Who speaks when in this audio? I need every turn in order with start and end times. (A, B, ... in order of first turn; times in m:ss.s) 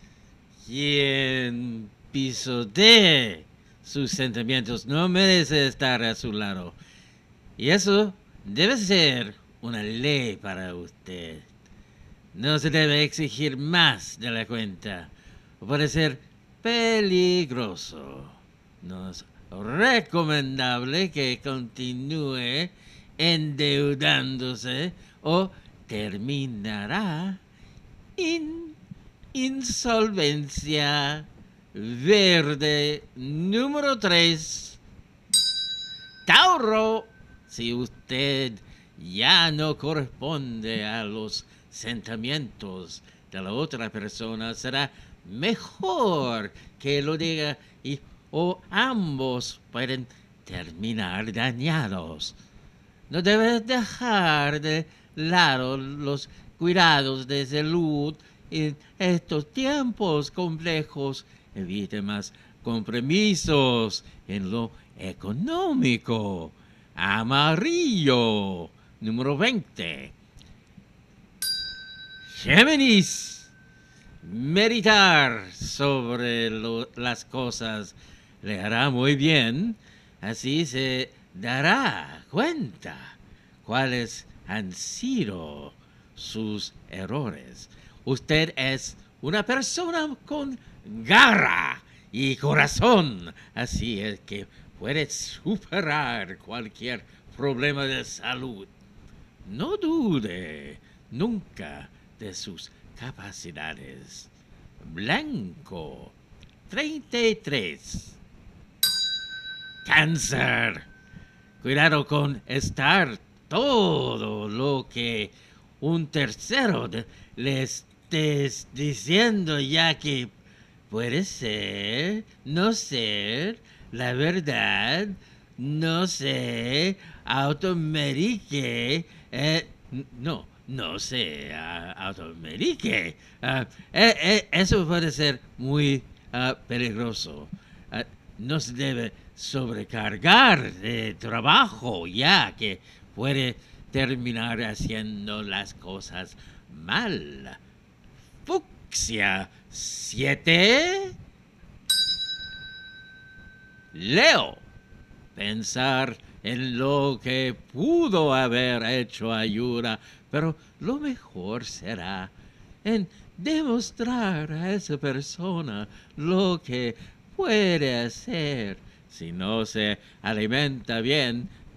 0:00.6-0:06.8 A
0:07.6-0:11.5 A
0:12.3-0:27.4 A
0:28.2-0:28.8 A
0:29.3-0:34.8 A
0:36.2-0:52.4 A
0:53.1-1:10.1 A
1:12.3-1:13.5 A
1:14.2-1:38.7 A
1:39.4-1:46.2 A
1:46.7-1:48.2 A
1:49.8-1:50.9 A
1:51.6-2:00.3 A
2:00.9-2:27.6 A
2:28.4-2:31.2 A
2:33.9-2:34.6 A
2:35.3-2:51.5 A